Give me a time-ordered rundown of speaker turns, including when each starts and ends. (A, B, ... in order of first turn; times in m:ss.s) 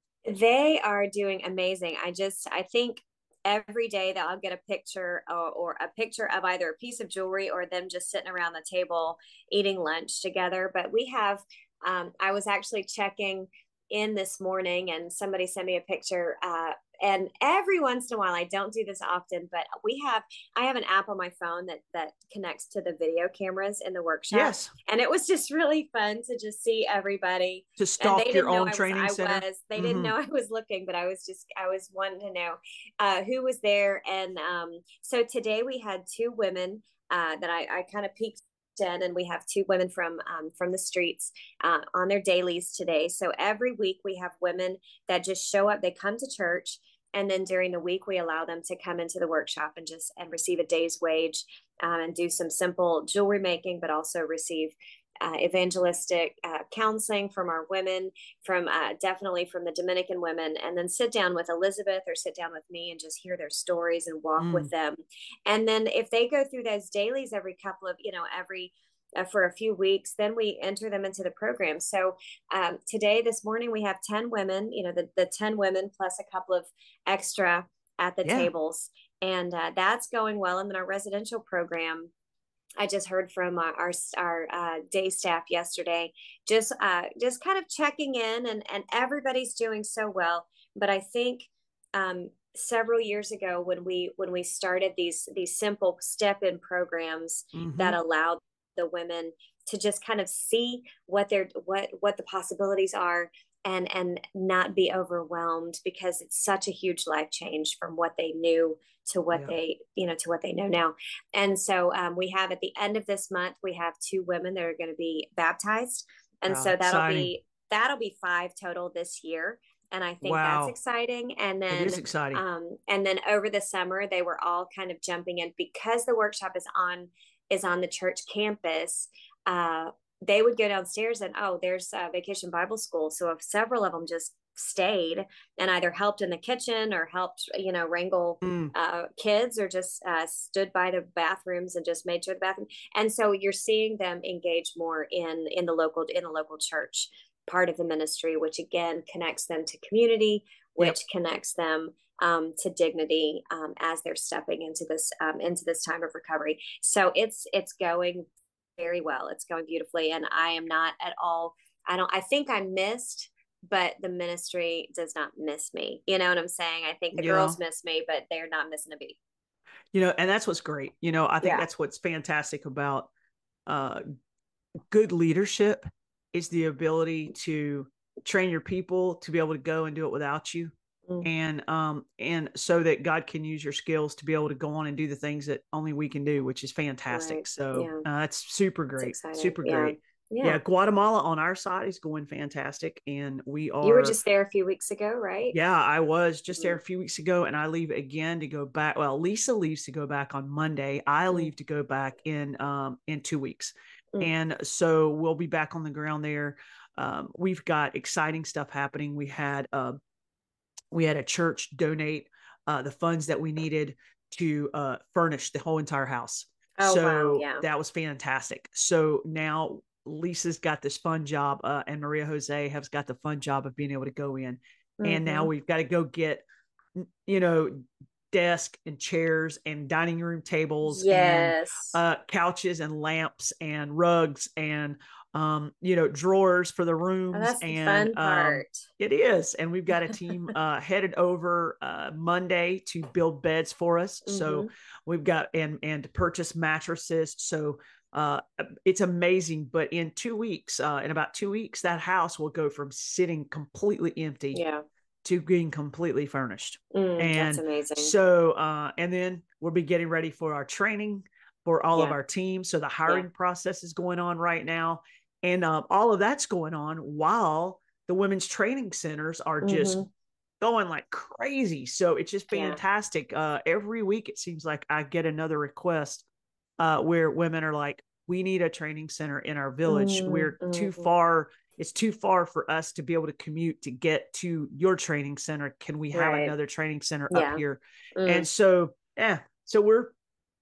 0:00.3-1:22.1 A
0:24.3-0:24.7 B
0:27.8-0:30.1 B
1:04.4-1:04.7 B
1:18.2-1:18.5 B
1:22.8-2:38.3 A
1:37.6-1:38.0 B
1:56.5-1:57.3 B
2:00.2-2:00.8 B
2:01.7-2:02.4 B
2:18.4-2:18.7 B
2:38.8-2:49.2 A
2:47.2-2:47.6 B
2:49.9-2:53.1 B
2:51.4-2:51.7 A
2:53.7-2:54.0 B
2:54.9-3:14.2 B
3:07.1-3:08.0 A
3:09.0-3:10.6 A
3:13.8-3:15.6 A
3:15.5-3:30.0 B
3:30.9-3:46.4 B
3:36.8-3:37.6 A
3:45.0-3:45.5 A
3:47.0-4:14.6 B
3:50.9-3:52.0 A
3:57.3-3:58.8 A
4:04.3-4:04.7 A
4:14.5-4:14.8 A
4:15.2-4:30.0 B
4:16.9-4:18.2 A
4:29.6-4:30.1 A
4:30.6-4:36.2 B
4:32.5-4:32.8 A
4:36.8-4:50.1 B
4:39.9-4:41.1 A
4:46.1-4:46.5 A
4:47.3-4:47.6 A
4:48.2-4:48.5 A